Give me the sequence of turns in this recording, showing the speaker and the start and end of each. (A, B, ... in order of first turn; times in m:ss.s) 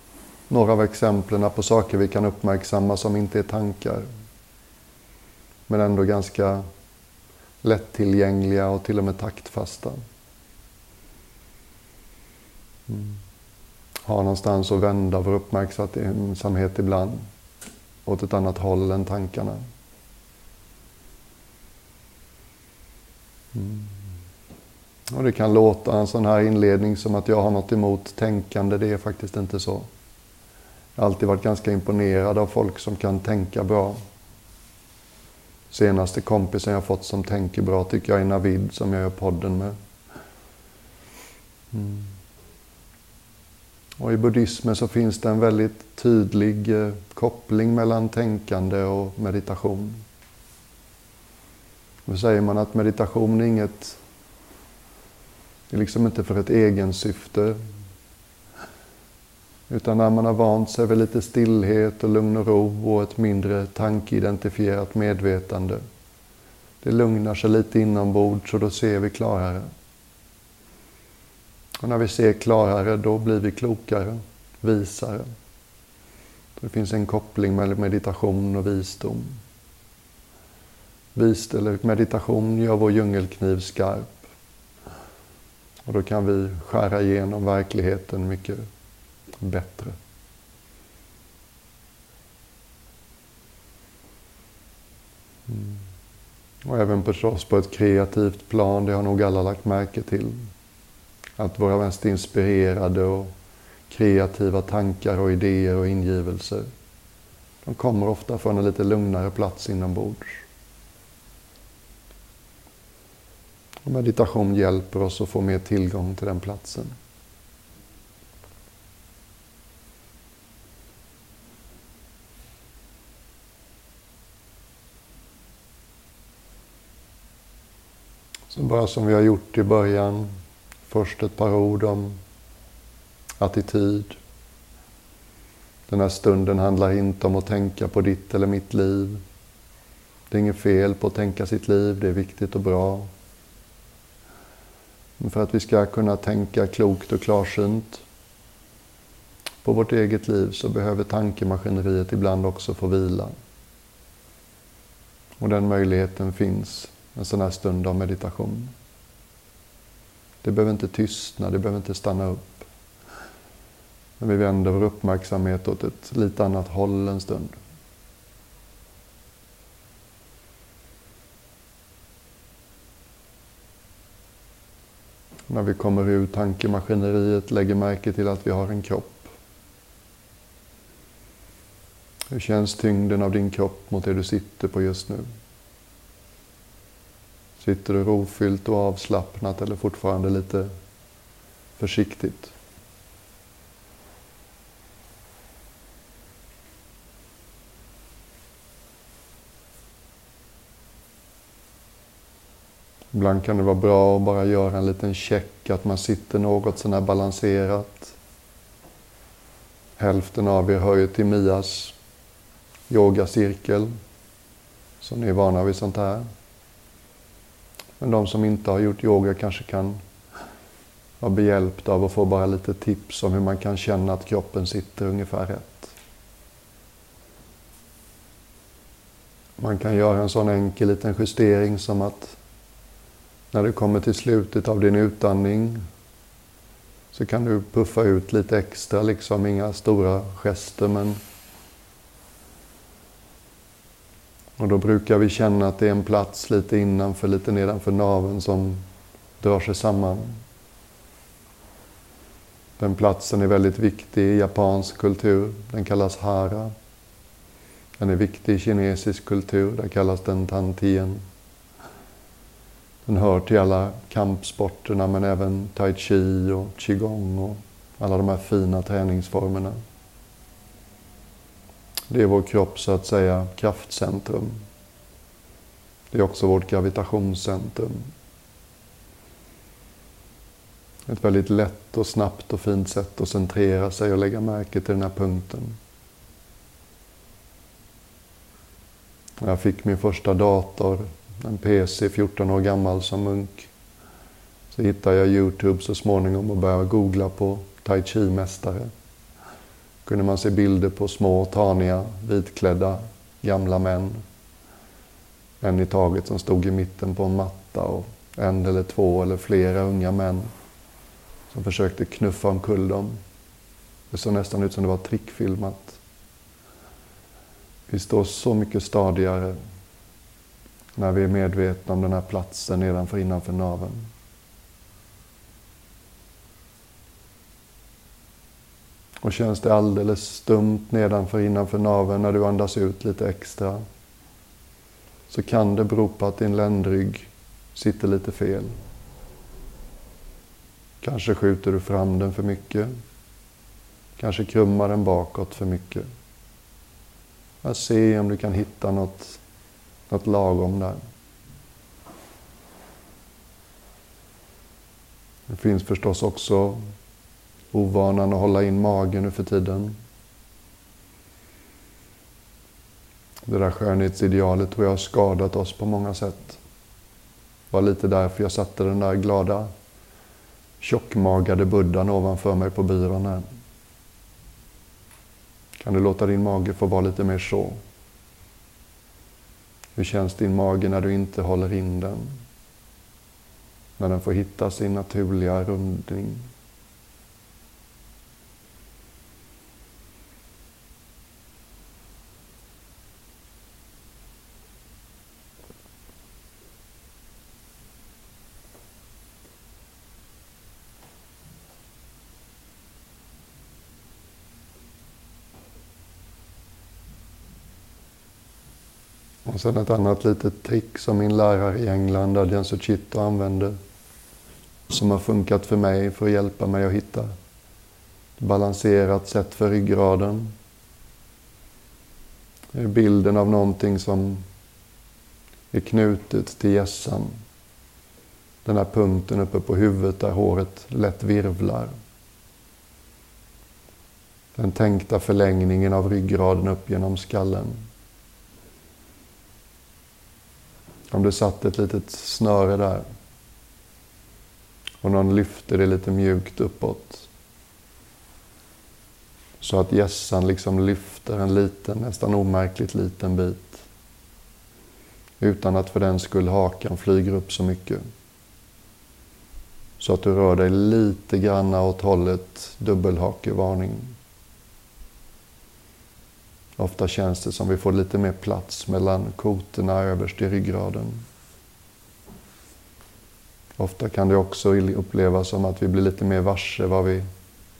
0:00.5-0:04.1 A
0:05.7-0:06.6 A
0:07.6-0:10.0 A
0:12.9-0:13.2 A
0:14.0-0:17.3 A
0:18.0-0:19.6 A
0:23.5-0:23.9 A
0:25.1-0:29.9 A
0:31.0-0:34.0 A
0:35.7-0:39.7 A
0:41.7-0:42.1 A
0:44.0-0:50.0 A
0:52.0-0:54.0 A
0:55.7-0:57.6 A
0:59.7-1:05.8 A
1:06.8-1:09.7 A
1:11.8-1:15.3 A
1:16.6-1:19.4 A
1:21.1-1:24.3 A
1:25.8-1:28.6 A
1:29.4-1:30.0 A
1:35.5-1:35.8 A
1:36.6-1:40.4 A
1:41.4-1:43.3 A
1:43.9-1:46.7 A
1:47.6-1:50.4 A
1:53.8-1:56.9 A
2:08.5-2:10.3 A
2:10.9-2:12.2 A
2:13.4-2:14.2 A
2:15.9-2:19.2 A
2:20.3-2:23.1 A
2:25.2-2:28.0 A
2:29.6-2:33.3 A
2:35.4-2:38.7 A
2:40.4-2:42.7 A
2:44.2-2:47.6 A
2:55.5-2:59.3 A
3:02.3-3:05.2 A
3:07.6-3:10.7 A
3:11.8-3:12.5 A
3:23.1-3:28.2 A
3:30.0-3:31.9 A
3:32.9-3:33.9 A
3:35.0-3:36.2 A
3:38.0-3:40.0 A
3:41.2-3:45.9 A
3:49.6-3:52.4 A
3:53.5-3:55.8 A
3:57.1-4:01.2 A
4:04.6-4:08.8 A
4:09.4-4:10.4 A
4:12.8-4:16.7 A
4:18.0-4:21.2 A
4:23.0-4:29.8 A
4:32.1-4:34.6 A
4:36.1-4:38.1 A
4:41.1-4:45.8 A
4:49.4-4:53.7 A
4:54.7-4:58.9 A
5:00.0-5:04.2 A
5:05.6-5:10.5 A
5:11.5-5:13.2 A
5:14.1-5:16.0 A
5:17.9-5:19.6 A
5:21.0-5:24.1 A
5:29.2-5:33.8 A
5:35.3-5:38.7 A
5:41.0-5:42.9 A
5:44.2-5:46.1 A
5:47.6-5:49.4 A
5:50.1-5:51.0 A
5:55.5-5:56.8 A
5:57.7-6:00.0 A
6:03.4-6:06.6 A
6:07.7-6:09.7 A
6:10.8-6:13.4 A
6:15.8-6:17.8 A
6:20.0-6:22.4 A
6:24.0-6:26.5 A
6:49.4-6:53.8 A
6:54.9-6:57.3 A
6:58.4-7:00.5 A
7:02.7-7:04.4 A
7:05.7-7:07.4 A
7:08.6-7:11.9 A
7:14.6-7:17.8 A
7:21.1-7:23.0 A
7:25.0-7:27.3 A
7:29.6-7:33.8 A
7:35.4-7:38.0 A
7:40.0-7:44.1 A
7:46.8-7:51.2 A
7:53.8-7:57.2 A